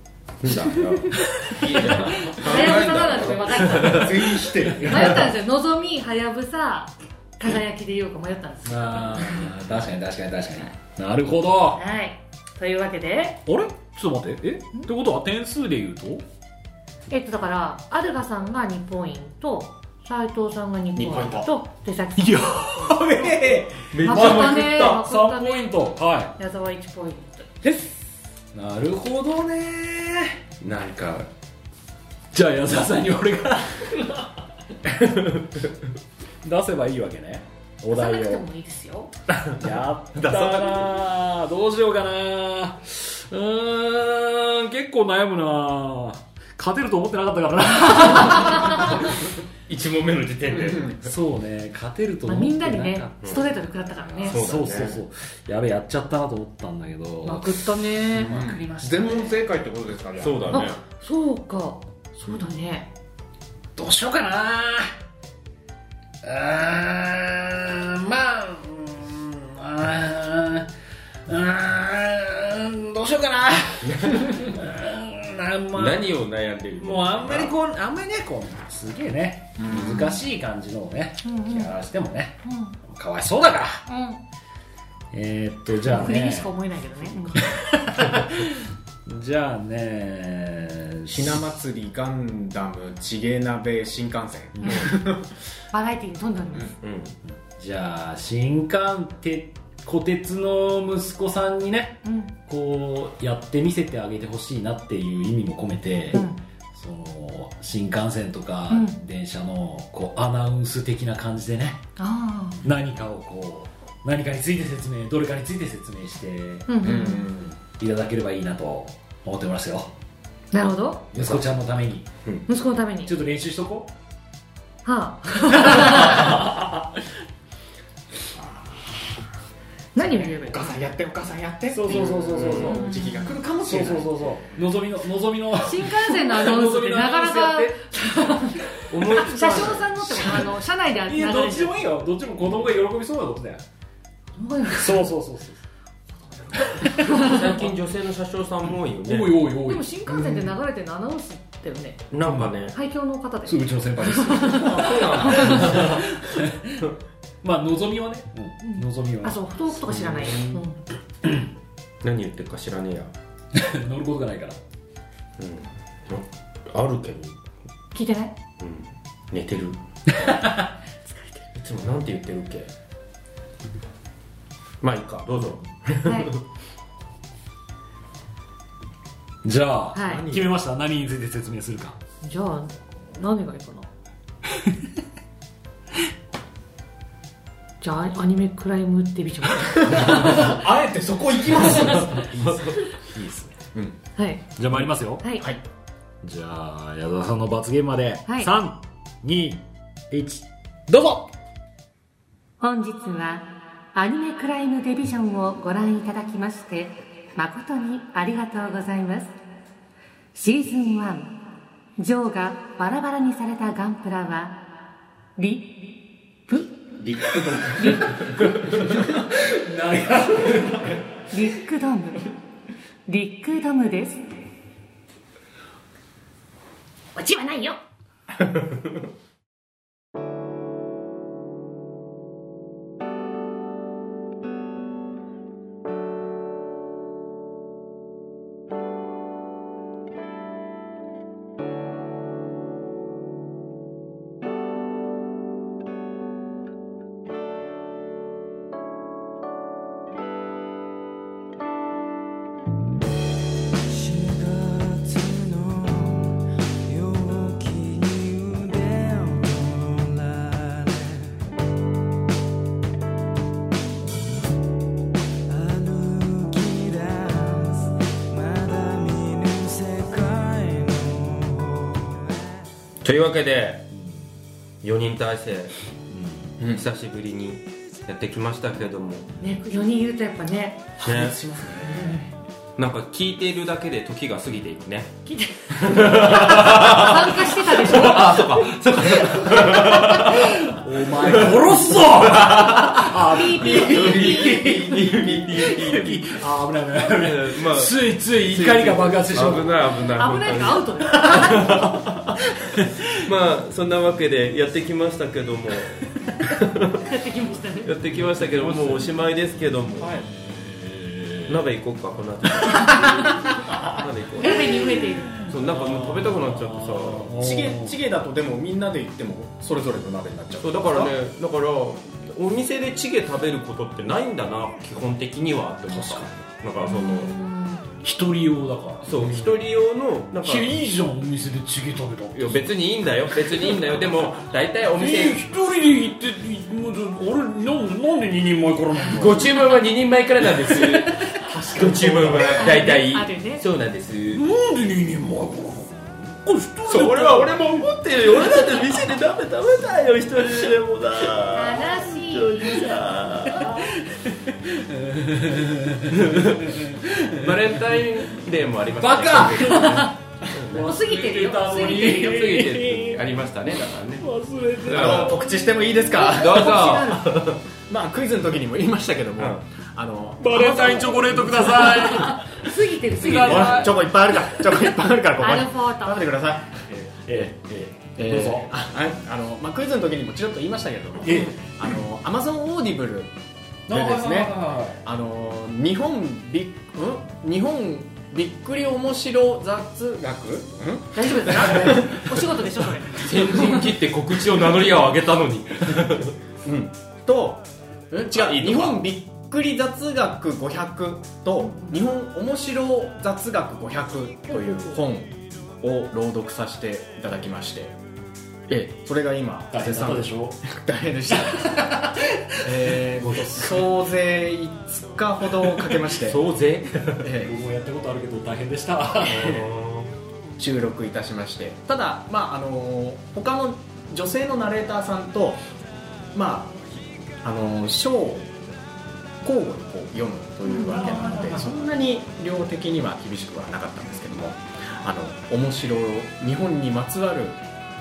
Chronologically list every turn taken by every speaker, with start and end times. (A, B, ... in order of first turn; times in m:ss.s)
0:00.4-0:04.5 A
0:01.1-0:02.2 B
0:01.9-0:04.3 C
0:03.8-0:05.1 D
0:04.7-0:05.3 B
0:04.8-0:09.5 C
0:08.6-0:11.8 B
0:11.8-0:13.4 C
0:13.5-0:16.2 B
0:17.1-0:23.0 C
0:21.0-0:21.5 D
0:22.2-0:23.5 B
0:23.0-0:23.9 D
0:23.9-0:25.0 A
0:24.0-0:25.8 C
0:24.2-0:26.4 B
0:26.4-0:27.9 C
0:28.5-0:30.4 B
0:30.6-0:31.3 A
0:32.3-0:34.3 B
0:36.4-0:38.4 B
0:37.9-0:39.1 C
0:39.5-0:49.1 B
0:40.1-0:40.8 A
0:49.7-0:51.1 A
0:50.6-0:50.9 D
0:51.0-0:59.4 B
0:52.3-0:54.4 C
0:54.2-0:55.0 A
0:57.2-0:58.4 C
0:58.1-1:00.7 D
1:00.2-1:00.8 A
1:00.5-1:02.9 C
1:03.8-1:04.9 B
1:06.2-1:10.7 B
1:11.3-1:16.1 B
1:13.8-1:14.5 A
1:15.8-1:17.5 A
1:16.8-1:23.8 B
1:19.6-1:20.2 D
1:21.2-1:21.7 C
1:22.4-1:22.8 C
1:23.9-1:24.2 C
1:25.1-1:26.5 B
1:25.8-1:27.4 C
1:27.4-1:31.4 B
1:31.1-1:35.3 D
1:34.6-1:35.0 C
1:35.7-1:36.8 C
1:36.8-1:37.2 A
1:37.4-1:51.8 B
1:42.0-1:42.3 C
1:46.1-1:46.4 C
1:48.7-1:49.0 C
1:52.0-1:52.6 C
1:52.6-1:56.7 B
1:56.7-1:57.3 C
1:56.8-1:57.6 D
1:57.8-1:59.9 B
2:00.5-2:01.1 C
2:01.1-2:02.1 B
2:01.2-2:01.4 A
2:02.5-2:03.1 C
2:03.0-2:03.9 B
2:04.8-2:06.4 C
2:05.7-2:06.8 B
2:08.4-2:08.8 D
2:10.0-2:10.6 C
2:10.0-2:14.4 D
2:11.7-2:12.9 B
2:12.4-2:12.8 A
2:12.7-2:13.4 C
2:13.6-2:17.8 B
2:15.6-2:21.8 C
2:18.9-2:20.3 A
2:21.1-2:23.6 B
2:24.4-2:25.1 C
2:24.7-2:25.6 B
2:26.6-2:27.4 B
2:26.9-2:27.5 C
2:27.0-2:29.4 A
2:29.0-2:29.9 B
2:29.6-2:32.0 C
2:30.2-2:30.4 D
2:32.1-2:32.8 A
2:32.3-2:32.5 B
2:32.7-2:35.9 C
2:33.4-2:36.9 B
2:34.4-2:36.1 A
2:37.4-2:39.4 B
2:38.6-2:40.8 C
2:39.9-2:40.6 A
2:42.0-2:43.1 A
2:43.5-2:44.6 B
2:45.4-2:47.4 A
2:47.9-2:48.3 C
2:48.6-2:49.8 A
2:50.1-2:50.7 B
2:51.0-2:51.4 C
2:51.6-2:52.7 A
2:54.8-2:56.4 A
2:56.0-2:56.3 C
2:59.4-3:02.0 B
2:59.9-3:00.3 C
3:00.1-3:00.4 D
3:02.2-3:03.9 C
3:04.5-3:04.9 B
3:07.8-3:10.5 C
3:09.8-3:12.2 D
3:10.1-3:10.4 B
3:11.7-3:12.0 C
3:11.8-3:13.6 B
3:14.2-3:14.4 C
3:14.6-3:15.2 B
3:15.2-3:15.5 C
3:16.2-3:21.3 B
3:18.3-3:18.5 C
3:22.6-3:29.4 C
3:30.3-3:31.4 C
3:32.0-3:34.8 C
3:35.4-3:36.9 C
3:37.1-3:38.1 A
3:37.8-3:38.2 C
3:38.1-3:41.0 B
3:41.3-3:42.3 C
3:43.1-3:44.4 C
3:47.2-3:47.8 C
4:13.8-4:21.4 E
4:25.5-4:32.7 E
4:33.0-4:33.9 A
4:33.9-4:34.3 B
4:34.8-4:35.7 A
4:36.1-4:36.5 B
4:36.6-4:39.3 A
4:39.4-4:40.9 C
4:41.0-4:42.3 D
4:41.0-4:41.4 A
4:41.9-4:42.2 C
4:42.8-4:45.1 A
4:45.3-4:48.6 C
4:45.7-4:50.6 A
4:49.4-4:59.8 B
4:51.2-4:56.4 A
4:53.2-4:54.6 C
4:57.1-5:02.4 A
5:00.2-5:01.8 C
5:01.3-5:01.9 B
5:02.6-5:03.2 B
5:03.0-5:07.0 A
5:07.0-5:08.0 C
5:07.8-5:10.2 A
5:08.2-5:09.1 B
5:10.0-5:11.6 B
5:11.5-5:17.3 A
5:12.6-5:14.0 B
5:14.4-5:15.4 C
5:15.4-5:18.0 B
5:17.4-5:21.2 D
5:20.6-5:27.3 A
5:25.9-5:26.3 B
5:26.8-5:27.8 C
5:28.0-5:29.6 B
5:29.0-5:30.7 A
5:30.4-5:32.7 B
5:32.3-5:35.4 A
5:35.0-5:39.5 B
5:39.1-5:44.4 A
5:40.6-5:41.4 B
5:41.5-5:42.7 D
5:42.6-5:43.6 C
5:44.3-5:47.6 B
5:46.9-5:53.8 A
5:51.5-5:53.0 C
5:53.4-5:58.0 B
5:56.1-5:56.8 A
5:57.4-6:00.1 A
5:59.0-6:03.4 B
5:59.8-6:00.1 C
6:00.7-6:02.3 C
6:01.9-6:04.3 A
6:04.2-6:05.5 B
6:04.8-6:05.4 A
6:04.9-6:06.8 D
6:05.6-6:07.4 C
6:06.3-6:07.6 A
6:07.9-6:11.9 D
6:10.4-6:14.1 B
6:10.5-6:13.9 C
6:13.3-6:23.4 D
6:15.4-6:16.3 C
6:18.1-6:18.7 B
6:21.2-6:21.6 B
6:23.9-6:25.0 B
6:23.9-6:24.5 D
6:25.0-6:32.2 D
6:31.1-6:33.9 C
6:33.2-6:36.4 A
6:36.6-6:48.0 D
6:38.3-6:39.0 A
6:48.7-6:51.8 D
6:49.7-6:50.6 B
6:51.5-6:52.7 B
6:52.6-6:56.4 D
6:53.2-6:53.7 B
6:56.2-6:57.3 A
6:57.2-6:57.5 D
6:57.4-6:59.4 B
6:59.3-7:00.1 A
6:59.3-6:59.6 D
7:00.6-7:05.6 D
7:06.3-7:06.8 D
7:07.4-7:08.5 D
7:09.4-7:17.6 D
7:10.8-7:11.0 C
7:10.9-7:11.8 B